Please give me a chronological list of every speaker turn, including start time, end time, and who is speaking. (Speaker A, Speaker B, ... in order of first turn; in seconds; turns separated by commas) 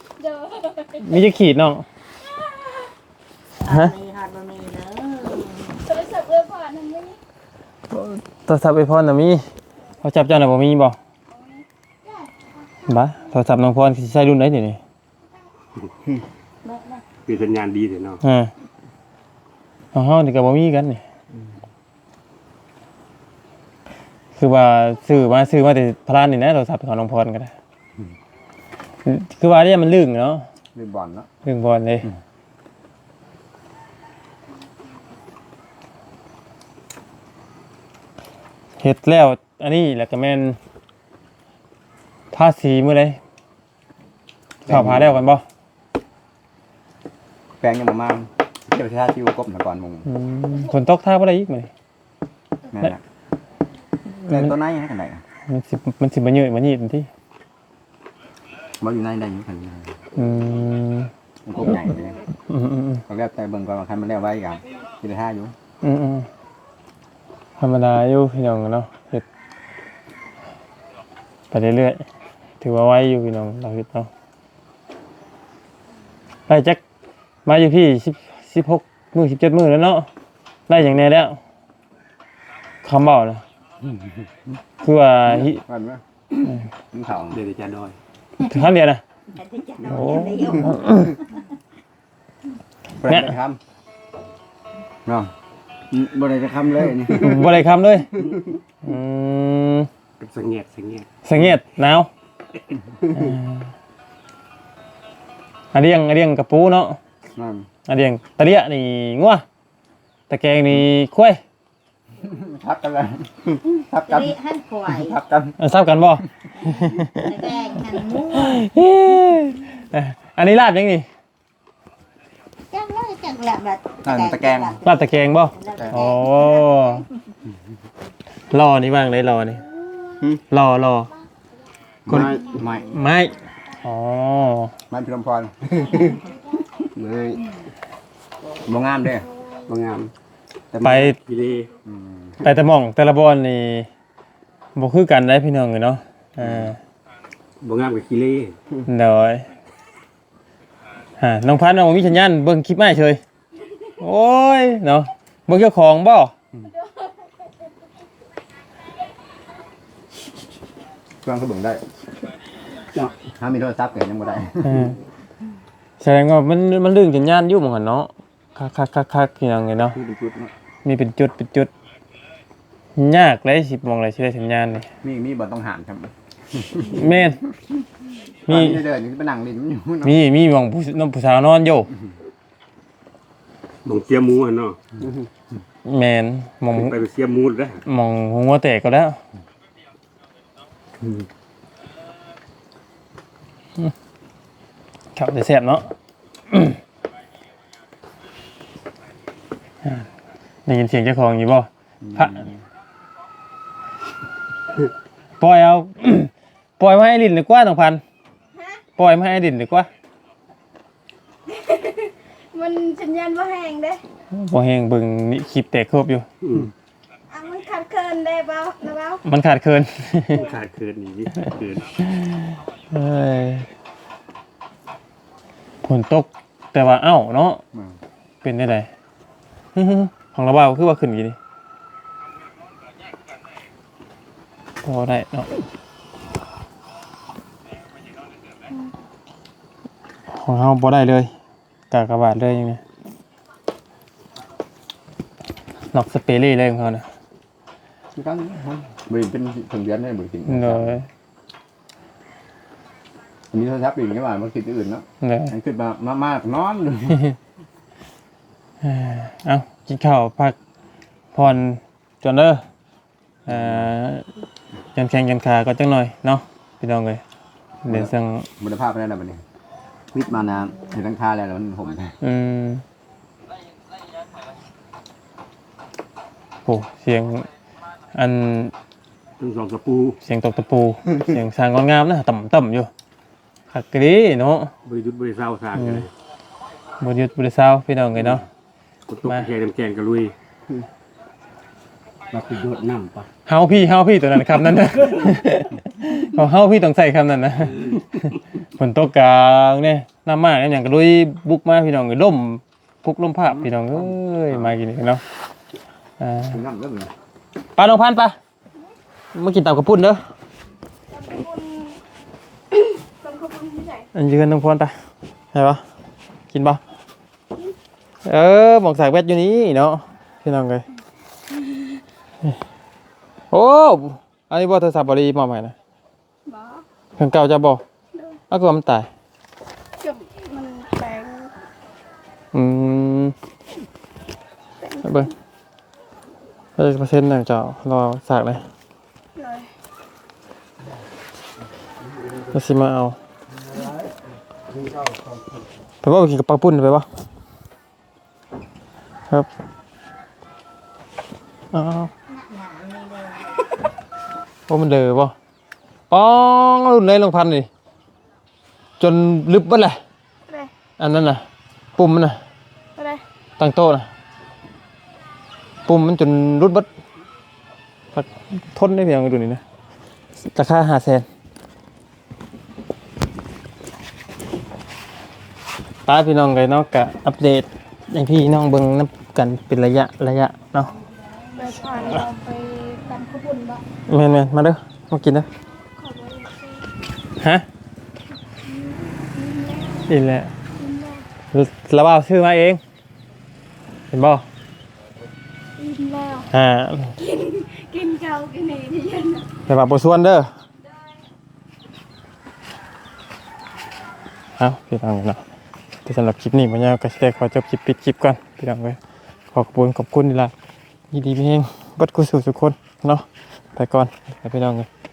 Speaker A: 0.2-1.0, Speaker B: 1.0-1.9, Speaker A: 2.4-2.8, Speaker C: 3.6-5.8, Speaker B: 3.7-3.9, Speaker A: 5.8-7.2, Speaker B: 7.9-9.4, Speaker B: 10.0-11.0, Speaker A: 11.3-11.6, Speaker B: 12.9-14.8, Speaker C: 16.6-17.0, Speaker D: 17.2-18.2, Speaker B: 18.2-18.5, Speaker B: 19.9-21.0, Speaker B: 24.4-27.5, Speaker B: 29.0-30.4, Speaker E: 30.7-31.3, Speaker B: 31.4-32.1, Speaker B: 38.8-40.6, Speaker B: 42.3-43.2, Speaker E: 44.6-45.2, Speaker B: 44.6-45.4, Speaker E: 47.6-50.1, Speaker B: 50.0-51.7, Speaker E: 52.7-53.0, Speaker B: 54.2-54.5, Speaker E: 54.2-55.2, Speaker B: 55.5-57.1, Speaker E: 58.8-59.9, Speaker B: 60.1-61.1, Speaker E: 61.4-62.2, Speaker B: 62.5-63.0, Speaker E: 63.1-65.5, Speaker B: 65.8-66.3, Speaker B: 67.6-69.2, Speaker B: 71.5-72.0, Speaker B: 72.6-74.1, Speaker B: 76.5-76.8, Speaker B: 77.4-80.1, Speaker B: 80.7-81.4, Speaker B: 82.8-83.4, Speaker E: 83.8-84.5, Speaker B: 84.8-85.6, Speaker E: 85.3-86.0, Speaker E: 86.8-87.4, Speaker D: 87.3-88.0, Speaker B: 88.4-89.0, Speaker C: 89.3-91.4, Speaker B: 89.9-91.2, Speaker E: 93.0-93.6, Speaker B: 93.0-93.3, Speaker E: 95.0-95.3, Speaker E: 95.9-97.5, Speaker B: 97.1-98.1, Speaker B: 98.8-99.9, Speaker D: 100.2-101.2, Speaker B: 101.2-102.1, Speaker B: 103.1-103.7, Speaker B: 105.7-107.0, Speaker E: 107.3-107.7, Speaker B: 107.9-109.4, Speaker B: 110.3-111.4, Speaker E: 112.2-114.3, Speaker C: 114.1-115.2, Speaker E: 114.8-115.5, Speaker B: 115.6-117.3, Speaker C: 116.6-118.7, Speaker B: 118.3-121.0, Speaker C: 122.7-127.0, Speaker E: 124.0-124.8, Speaker B: 124.8-127.0, Speaker B: 128.5-129.6, Speaker B: 130.5-131.1, Speaker E: 132.1-133.0, Speaker B: 132.1-134.7, Speaker E: 134.9-136.2, Speaker C: 136.0-136.3, Speaker D: 136.9-137.4, Speaker E: 138.6-139.3, Speaker D: 139.7-140.1, Speaker D: 140.7-141.7, Speaker B: 140.8-141.2, Speaker E: 141.8-142.4, Speaker B: 142.4-143.9, Speaker B: 144.7-146.8, Speaker E: 146.4-146.7, Speaker D: 147.6-148.6, Speaker B: 148.9-149.5, Speaker B: 151.2-153.2, Speaker B: 154.0-156.3, Speaker E: 161.2-161.8, Speaker E: 163.2-164.9, Speaker B: 164.6-165.0, Speaker B: 166.0-170.0, Speaker E: 169.9-170.5, Speaker B: 170.8-171.7, Speaker B: 172.9-174.9, Speaker E: 175.0-177.3, Speaker B: 176.9-177.4, Speaker B: 178.5-178.8, Speaker E: 178.5-180.2, Speaker B: 180.0-181.9, Speaker D: 183.8-184.9, Speaker B: 185.8-186.9, Speaker D: 186.7-187.8, Speaker B: 187.8-189.2, Speaker B: 195.1-195.9, Speaker B: 196.5-196.8, Speaker B: 200.7-202.5, Speaker E: 202.1-202.5, Speaker B: 205.4-208.0, Speaker B: 208.9-209.9, Speaker A: 211.5-214.0, Speaker B: 214.3-216.2, Speaker D: 216.4-216.7, Speaker A: 217.3-219.2, Speaker B: 219.2-220.4, Speaker D: 220.3-222.0, Speaker B: 222.1-223.7, Speaker B: 225.8-227.6, Speaker B: 228.4-228.9, Speaker B: 229.7-231.4, Speaker B: 234.8-235.5, Speaker B: 240.3-241.3, Speaker B: 241.9-242.8, Speaker B: 245.9-247.1, Speaker E: 248.1-251.0, Speaker B: 250.5-251.0, Speaker E: 253.5-257.2, Speaker B: 255.2-255.5, Speaker B: 258.8-260.6, Speaker B: 261.3-262.6, Speaker E: 263.5-263.9, Speaker B: 263.5-264.2, Speaker B: 264.9-267.2, Speaker B: 267.8-268.5, Speaker E: 267.9-269.4, Speaker E: 270.1-272.1, Speaker B: 272.2-272.8, Speaker B: 276.6-277.5, Speaker B: 278.1-278.7, Speaker D: 279.4-280.2, Speaker B: 280.2-282.9, Speaker B: 283.7-284.7, Speaker D: 284.8-286.1, Speaker B: 285.8-286.1, Speaker B: 287.0-288.4, Speaker D: 289.1-290.3, Speaker B: 289.2-289.5, Speaker D: 292.3-293.3, Speaker B: 293.4-305.2, Speaker E: 303.9-304.7, Speaker B: 306.2-306.6, Speaker E: 306.5-307.1, Speaker B: 307.8-308.4, Speaker B: 309.3-310.2, Speaker A: 311.1-312.0, Speaker A: 312.7-314.1, Speaker B: 314.1-314.9, Speaker B: 315.5-315.8, Speaker B: 316.5-316.8, Speaker B: 318.2-320.8, Speaker B: 323.5-325.7, Speaker A: 326.5-326.8, Speaker B: 327.2-327.8, Speaker B: 328.5-329.1, Speaker A: 330.0-331.5, Speaker B: 332.5-333.3, Speaker A: 334.8-335.3, Speaker B: 335.0-335.3, Speaker B: 336.8-338.6, Speaker A: 339.4-339.7, Speaker B: 342.5-343.1, Speaker B: 346.0-347.1, Speaker B: 351.7-352.1, Speaker C: 352.3-353.6, Speaker B: 354.7-355.3, Speaker B: 356.1-357.7, Speaker B: 359.0-360.0, Speaker B: 361.0-361.4, Speaker B: 361.9-362.4, Speaker A: 363.0-363.2, Speaker B: 363.6-364.1, Speaker B: 365.9-366.9, Speaker B: 368.1-369.6, Speaker B: 370.5-371.2, Speaker B: 376.1-380.9, Speaker A: 381.6-383.8, Speaker B: 384.1-385.5, Speaker A: 385.9-386.9, Speaker B: 387.4-387.6, Speaker A: 388.6-390.1, Speaker B: 390.1-390.5, Speaker A: 390.8-391.2, Speaker B: 391.5-392.8, Speaker B: 394.1-394.4, Speaker A: 395.8-396.5, Speaker B: 396.5-397.1, Speaker A: 397.2-399.5, Speaker B: 399.7-400.5, Speaker B: 404.6-405.4, Speaker B: 406.0-409.0, Speaker B: 409.5-410.5, Speaker B: 411.1-413.2, Speaker B: 413.8-414.9